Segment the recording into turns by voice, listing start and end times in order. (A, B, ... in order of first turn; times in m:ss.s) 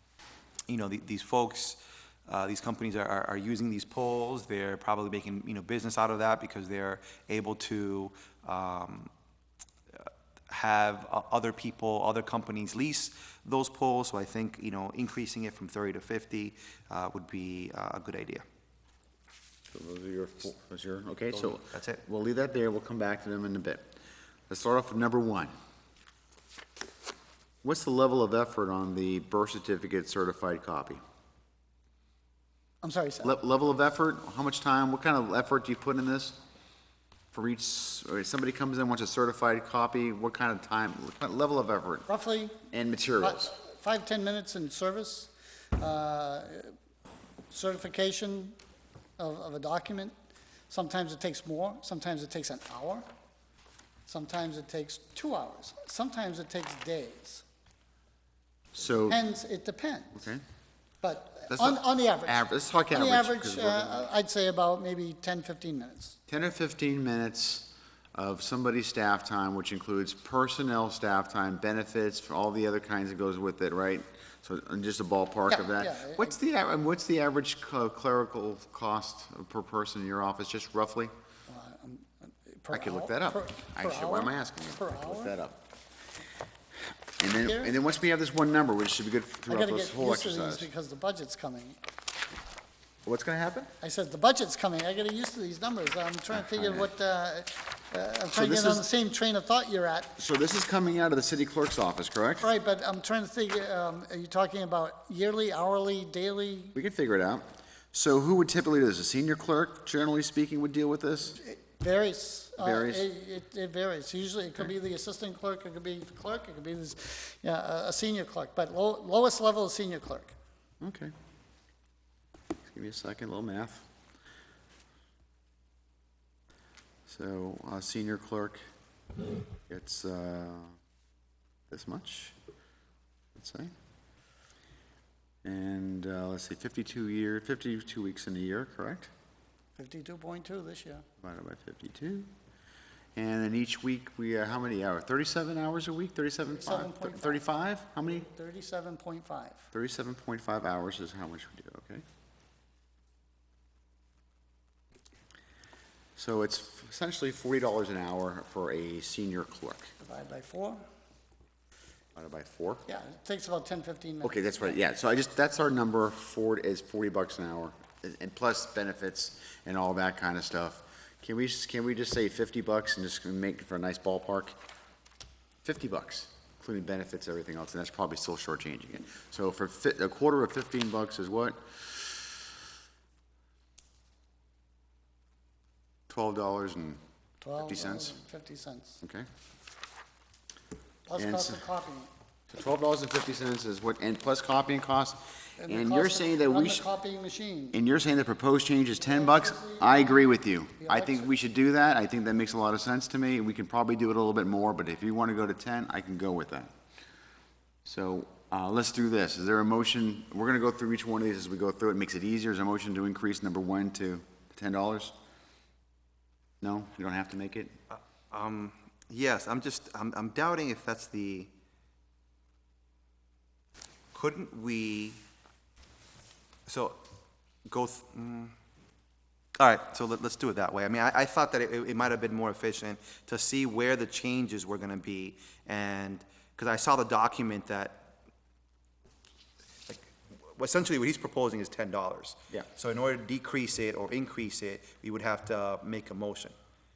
0:00.7-0:09.1 A
0:09.9-0:18.4 A
0:19.7-0:23.9 B
0:21.3-0:22.0 A
0:24.5-0:25.5 B
0:27.6-0:31.0 B
0:32.8-0:33.4 C
0:33.2-0:36.4 B
0:37.3-0:42.1 B
0:42.1-0:42.6 C
0:42.7-0:43.5 B
0:43.2-0:46.7 C
0:47.5-0:48.6 C
0:49.2-0:50.1 C
0:50.7-0:53.0 C
0:54.1-0:57.4 C
0:58.7-0:59.2 B
0:59.0-1:00.3 C
1:00.1-1:00.4 B
1:01.0-1:06.2 C
1:01.5-1:04.1 B
1:06.3-1:21.1 B
1:15.5-1:16.3 C
1:21.5-1:25.3 C
1:22.7-1:25.6 B
1:27.2-1:30.7 B
1:27.4-1:27.7 C
1:29.5-1:31.8 C
1:33.0-1:33.7 B
1:33.8-1:40.1 C
1:36.3-1:36.9 B
1:38.3-1:38.8 B
1:40.2-1:42.5 B
1:42.4-1:46.7 C
1:46.7-1:51.4 B
1:51.4-2:00.3 C
1:52.6-1:53.1 B
2:00.8-2:01.1 B
2:02.7-2:03.8 B
2:07.1-2:08.6 B
2:09.7-2:10.7 B
2:11.7-2:12.4 B
2:13.4-2:13.7 B
2:15.4-2:19.1 B
2:19.8-2:21.0 C
2:21.2-2:22.3 B
2:23.1-2:28.3 B
2:26.5-2:27.4 C
2:28.1-2:29.6 C
2:29.7-2:32.0 B
2:36.2-2:39.9 B
2:40.0-2:40.8 C
2:42.1-2:42.8 B
2:42.8-2:44.8 C
2:44.2-2:54.6 B
2:55.6-3:02.0 B
3:06.1-3:07.0 B
3:07.4-3:09.0 C
3:07.6-3:08.2 B
3:09.0-3:09.3 B
3:11.1-3:12.1 C
3:11.1-3:11.6 B
3:12.5-3:16.8 B
3:15.6-3:17.8 C
3:17.7-3:26.7 B
3:19.0-3:20.2 C
3:20.8-3:21.3 C
3:27.8-3:35.1 B
3:36.6-3:37.7 B
3:37.9-3:41.5 A
3:44.1-3:45.2 A
3:46.7-3:47.0 A
3:47.6-3:48.5 A
3:49.6-3:58.1 A
3:59.9-4:06.5 A